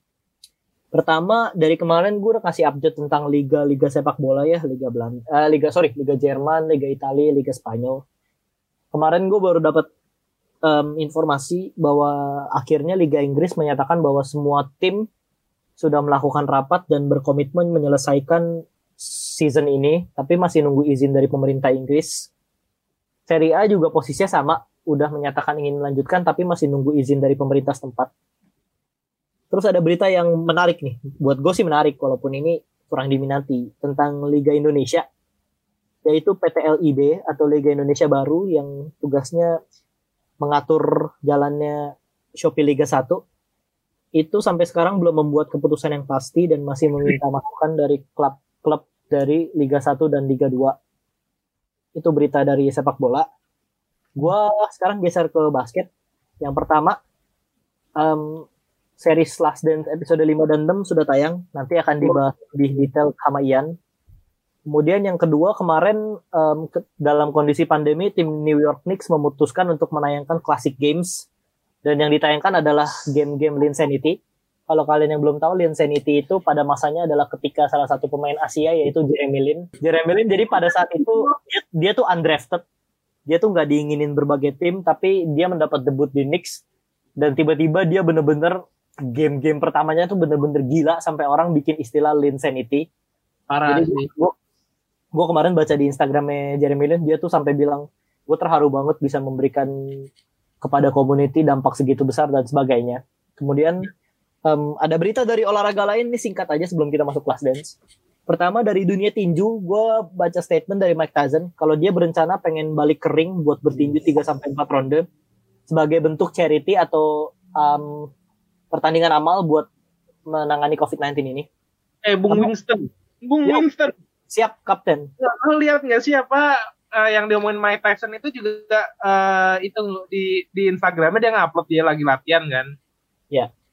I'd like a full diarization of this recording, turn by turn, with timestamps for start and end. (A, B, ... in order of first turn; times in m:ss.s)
0:00.9-0:08.0 A
0:08.9-0:09.9 A
0:10.6-0:15.0 A
0:15.8-0:22.3 A
0:23.3-0:28.1 A
0:29.5-0:35.0 A
0:36.0-0:39.6 A
0:40.4-0:43.2 A
0:44.2-0:50.8 A
0:52.0-0:53.3 A
0:54.2-0:55.9 A
0:56.4-0:57.0 A
0:58.0-0:58.4 A
0:59.0-1:03.7 A
1:04.7-1:11.2 A
1:11.8-1:14.2 A
1:14.7-1:22.6 A
1:20.8-1:21.3 B
1:23.3-1:26.6 A
1:27.2-1:32.8 A
1:33.5-1:34.1 B
1:33.7-1:34.3 A
1:35.1-1:39.7 A
1:40.6-1:43.9 A
1:44.5-1:47.7 A
1:48.3-1:55.0 A
1:55.7-1:58.1 A
1:58.7-1:59.7 A
2:00.3-2:01.5 A
2:02.0-2:03.9 B
2:04.3-2:05.1 A
2:05.2-2:12.7 B